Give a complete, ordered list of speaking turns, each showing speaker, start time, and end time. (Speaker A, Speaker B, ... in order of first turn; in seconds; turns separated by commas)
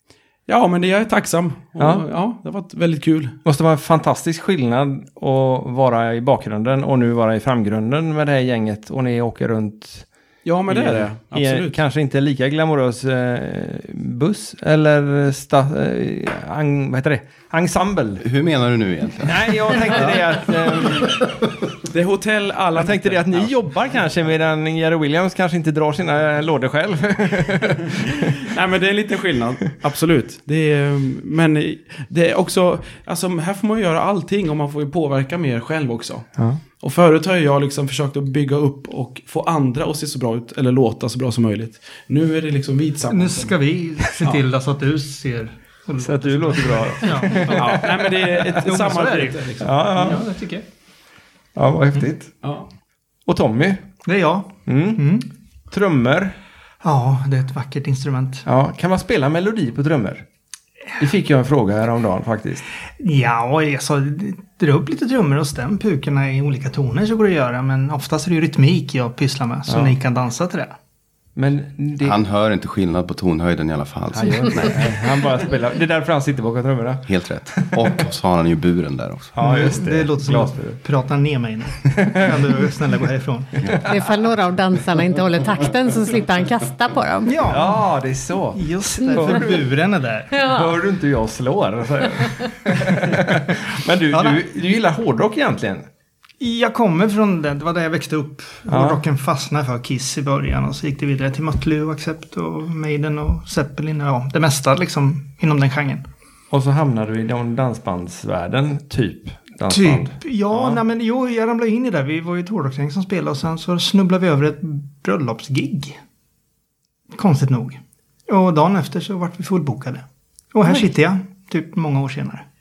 Speaker A: 0.5-3.4, Speaker B: 1.8-2.0, Speaker B: 3.4-10.1, Speaker A: 10.4-11.8, Speaker B: 10.7-18.2, Speaker C: 18.2-20.2, Speaker B: 19.2-21.2, Speaker A: 21.9-23.5, Speaker B: 22.7-28.5, Speaker A: 28.3-36.3, Speaker A: 36.8-43.5, Speaker D: 43.1-50.6, Speaker B: 46.0-48.6, Speaker A: 47.4-50.2, Speaker B: 49.6-50.2, Speaker B: 51.5-52.3, Speaker A: 52.4-52.7, Speaker B: 53.2-53.9, Speaker D: 54.0-55.3, Speaker B: 54.6-55.0, Speaker B: 55.7-56.4, Speaker D: 56.8-58.5, Speaker B: 58.5-60.2, Speaker B: 61.0-62.6, Speaker D: 63.0-70.7, Speaker B: 69.7-70.0, Speaker B: 71.3-72.2, Speaker C: 72.0-74.9, Speaker B: 74.1-78.0, Speaker C: 77.1-79.3, Speaker B: 79.3-80.8, Speaker D: 79.4-83.8, Speaker B: 81.9-82.5, Speaker E: 83.7-87.5, Speaker D: 87.2-87.8, Speaker B: 87.5-89.7, Speaker D: 88.5-90.5, Speaker E: 90.3-90.7, Speaker B: 90.3-95.8, Speaker D: 94.1-94.4, Speaker D: 96.4-106.0, Speaker B: 98.7-99.0, Speaker B: 106.5-110.8, Speaker D: 109.7-116.0, Speaker D: 117.1-122.4